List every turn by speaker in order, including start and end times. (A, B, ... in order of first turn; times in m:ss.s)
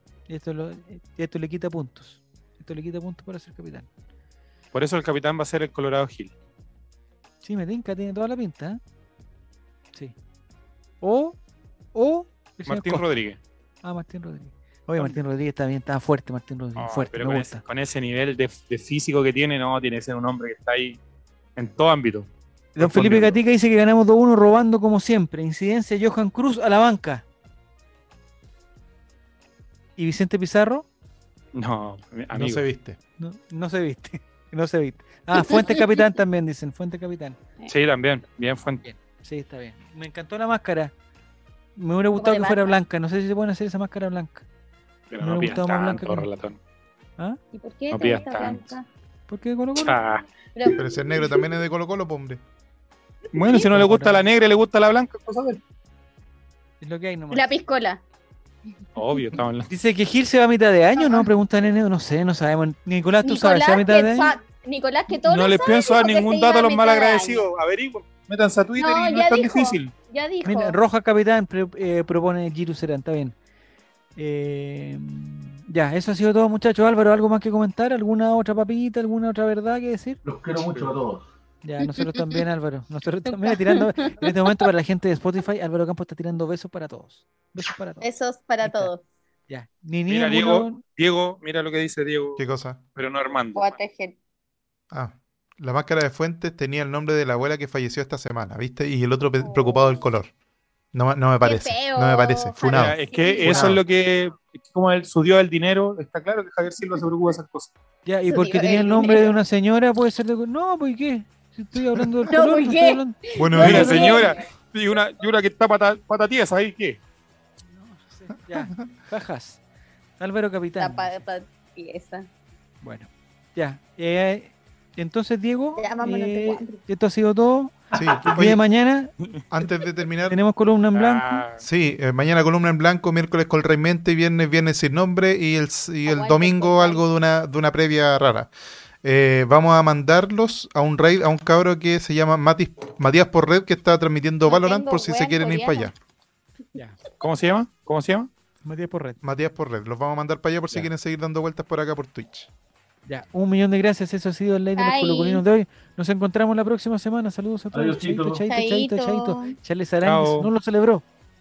0:00.3-0:03.9 A
0:04.7-0:06.3 B
0:07.4-0:08.8 A
0:11.0-0:11.4 A
0:11.9-0:13.0 A
0:12.7-0:13.4 B
0:13.8-0:17.6 A
0:16.8-0:21.0 B
0:21.6-0:23.4 B
0:22.8-0:27.2 A
0:30.0-0:30.8 A
0:31.5-0:32.6 B
0:32.3-0:33.0 C
0:33.2-0:37.4 A
0:35.3-0:36.0 D
0:37.7-0:38.8 B
0:38.8-0:40.9 A
0:41.8-0:44.4 A
0:42.1-0:42.7 D
0:45.1-0:46.6 B
0:45.1-0:46.3 A
0:47.5-0:48.8 D
0:47.9-0:48.7 B
0:48.0-0:48.5 A
0:49.3-0:50.0 A
0:49.8-0:50.2 B
0:50.6-0:51.5 D
0:50.7-0:52.4 C
0:53.3-0:55.6 B
0:53.5-0:54.2 A
0:56.8-0:57.5 A
0:57.3-0:58.0 D
0:59.0-0:59.7 B
0:59.7-1:04.3 A
1:03.2-1:07.4 D
1:05.1-1:09.9 B
1:08.8-1:10.8 D
1:10.4-1:13.3 A
1:14.2-1:20.2 A
1:20.2-1:21.3 E
1:21.6-1:28.1 A
1:23.3-1:24.5 D
1:28.0-1:29.0 D
1:28.6-1:28.9 A
1:29.5-1:30.8 A
1:30.1-1:32.4 B
1:32.4-1:32.8 C
1:33.0-1:33.6 B
1:33.5-1:34.1 D
1:34.9-1:40.3 C
1:39.4-1:40.1 D
1:40.9-1:43.8 C
1:41.4-1:43.8 D
1:42.6-1:47.7 B
1:48.0-1:54.1 A
1:48.3-1:49.4 D
1:52.3-1:54.4 D
1:53.4-1:54.1 C
1:53.5-1:57.0 B
1:57.7-1:59.6 A
1:58.5-1:58.8 C
2:00.2-2:01.2 A
2:00.8-2:02.3 D
2:02.8-2:09.1 A
2:05.8-2:06.8 D
2:07.9-2:08.2 E
2:07.9-2:08.6 C
2:09.5-2:10.4 C
2:10.3-2:11.4 A
2:10.9-2:11.6 B
2:11.6-2:18.5 C
2:16.0-2:17.0 D
2:19.0-2:25.9 C
2:24.5-2:25.9 D
2:27.2-2:28.3 B
2:28.6-2:29.2 A
2:29.2-2:32.5 C
2:33.1-2:41.0 A
2:34.8-2:35.4 D
2:37.7-2:38.5 E
2:38.5-2:39.5 D
2:40.0-2:40.5 B